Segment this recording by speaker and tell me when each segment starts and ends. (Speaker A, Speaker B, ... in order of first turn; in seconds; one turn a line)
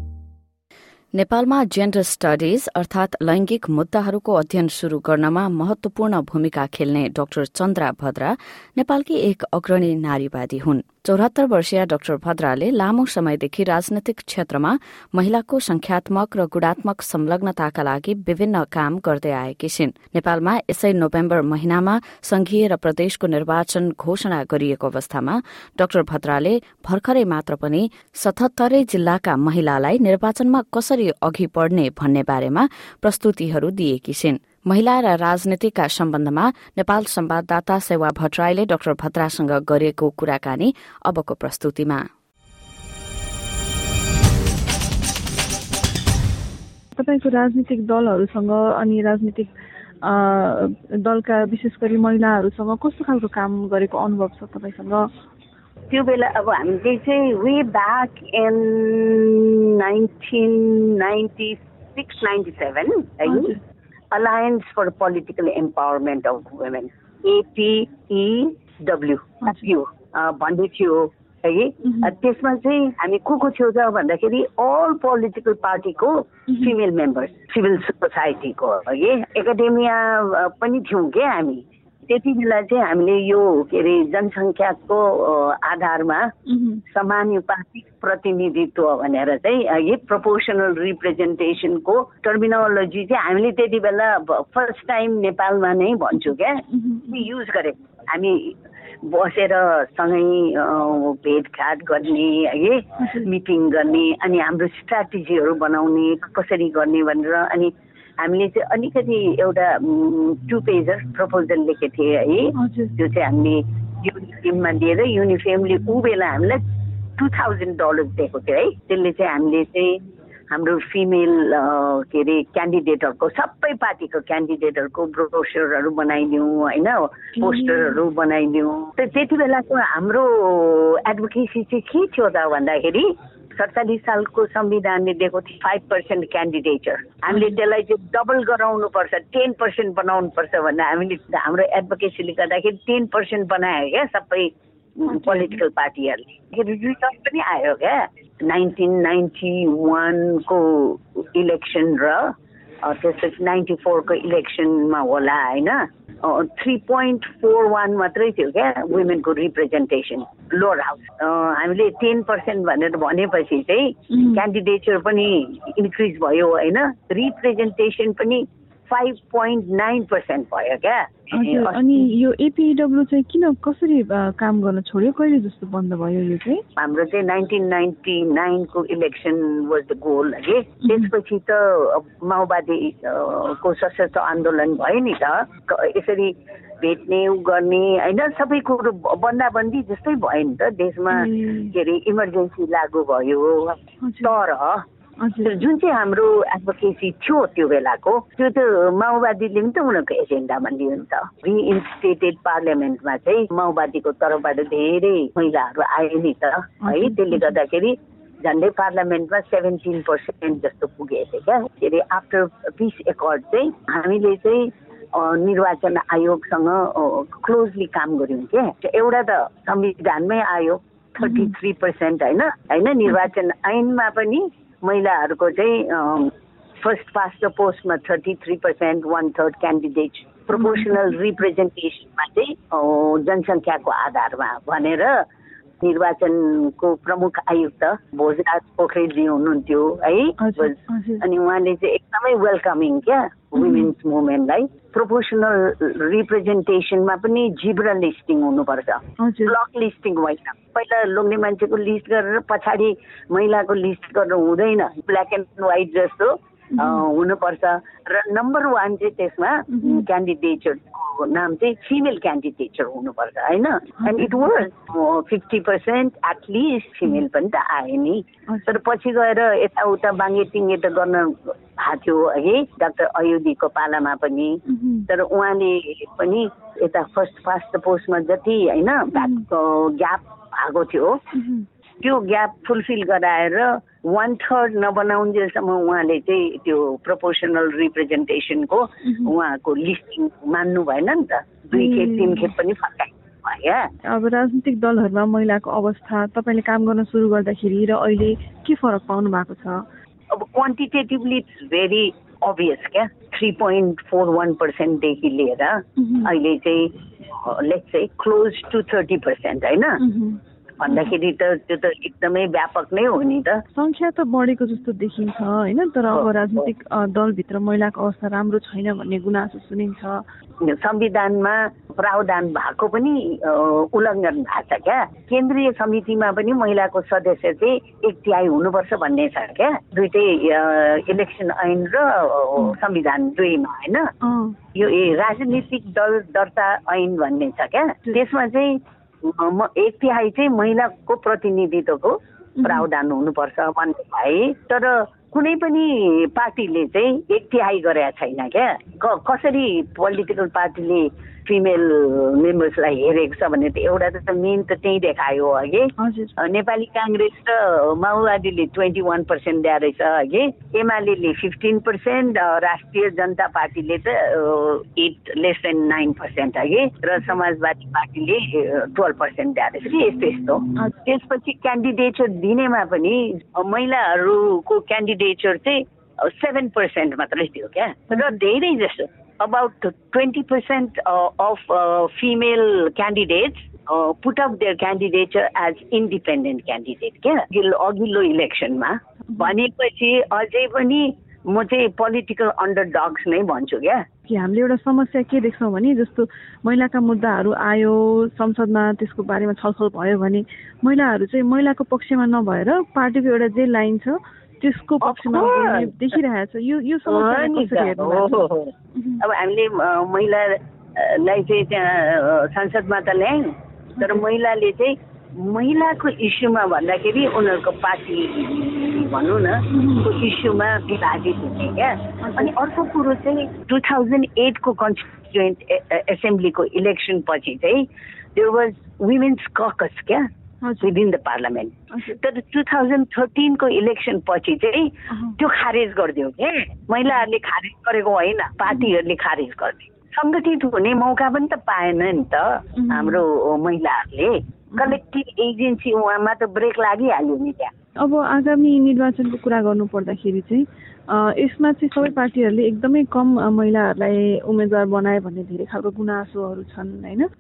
Speaker A: 1.1-42.0
Speaker B: 47.0-55.0
Speaker C: 55.9-63.6
Speaker B: 63.3-63.6
Speaker C: 64.1-86.3
Speaker B: 86.5-86.8
Speaker C: 86.9-116.6
Speaker B: 96.7-97.3
Speaker B: 112.6-112.9
Speaker C: 117.2-152.3
Speaker B: 127.4-128.0
Speaker B: 137.3-137.6
Speaker B: 145.1-145.6
Speaker C: 152.8-172.0
Speaker B: 164.2-164.4
Speaker B: 171.3-176.6
Speaker C: 176.8-194.8
Speaker B: 191.1-191.7
Speaker B: 194.0-194.3
Speaker B: 195.2-195.6
Speaker C: 195.4-235.2
Speaker B: 206.8-207.6
Speaker B: 221.2-221.5
Speaker B: 230.5-231.0
Speaker C: 235.8-281.2
Speaker B: 240.4-241.2
Speaker B: 243.6-243.9
Speaker B: 249.2-249.6
Speaker B: 256.8-257.0
Speaker B: 259.7-260.1
Speaker B: 264.0-264.6
Speaker B: 268.5-268.8
Speaker B: 274.7-275.1
Speaker B: 279.1-279.4
Speaker B: 281.4-281.7
Speaker C: 282.0-293.9
Speaker B: 291.7-292.5
Speaker B: 294.1-299.8
Speaker C: 300.3-310.0
Speaker B: 306.0-306.3
Speaker B: 310.0-311.1
Speaker C: 310.8-313.6
Speaker B: 313.7-320.2
Speaker C: 316.1-316.7
Speaker C: 320.6-334.1
Speaker B: 334.2-334.6
Speaker C: 334.7-394.0
Speaker B: 342.6-342.9
Speaker B: 356.0-356.4
Speaker B: 394.3-409.2
Speaker C: 405.0-405.9
Speaker C: 407.1-427.9
Speaker B: 414.0-414.2
Speaker B: 422.2-422.5
Speaker C: 428.4-430.2
Speaker B: 430.6-430.9
Speaker C: 430.8-447.7
Speaker B: 442.8-443.2
Speaker B: 448.0-457.3